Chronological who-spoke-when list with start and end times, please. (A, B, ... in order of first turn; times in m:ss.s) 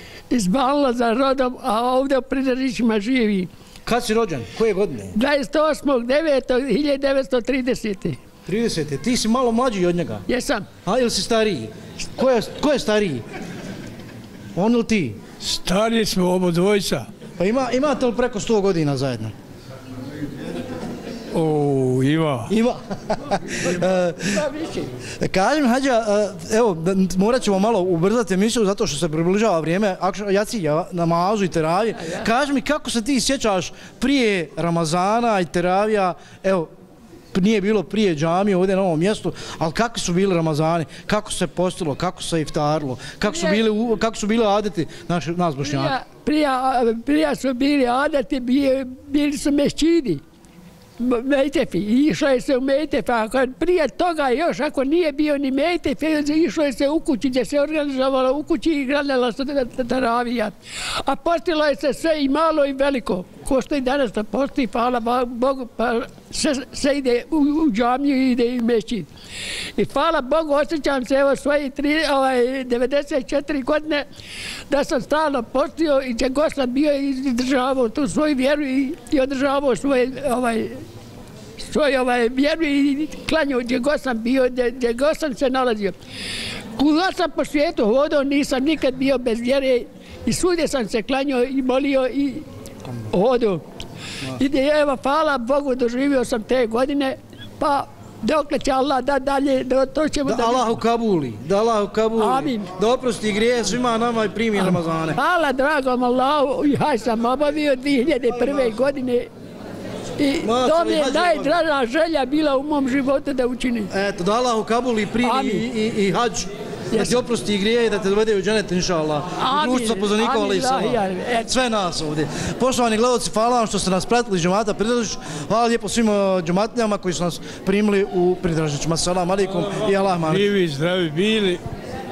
0:00.3-0:03.5 A
0:03.9-0:05.2 B
0:05.1-0:08.2 A
0:08.5-0:10.2 B
0:10.3-0:10.7 A
0:10.8-0:13.2 B
0:14.5-0:15.2 B
0:15.4-0:17.1 C
0:17.4-0:19.3 B
0:21.3-0:22.5 C
0:22.5-0:24.5 B
0:24.3-0:24.9 A
0:25.2-0:36.7 B
0:32.0-0:32.3 A
0:37.3-0:46.0 B
0:43.3-0:43.6 A
0:45.6-0:50.2 A
0:51.0-1:09.1 A
1:09.8-1:14.0 A
1:14.7-1:20.8 A
1:21.6-1:25.9 A
1:26.8-1:32.4 A
1:33.1-1:33.6 A
1:34.3-1:40.7 A
1:40.2-1:45.2 B
1:42.2-1:42.7 A
1:44.6-1:49.3 A
1:50.2-1:53.9 A
1:50.4-1:51.6 B
1:53.9-2:10.5 B
1:55.2-1:55.7 A
1:56.9-1:57.2 A
1:59.4-2:01.5 A
2:10.2-2:11.6 C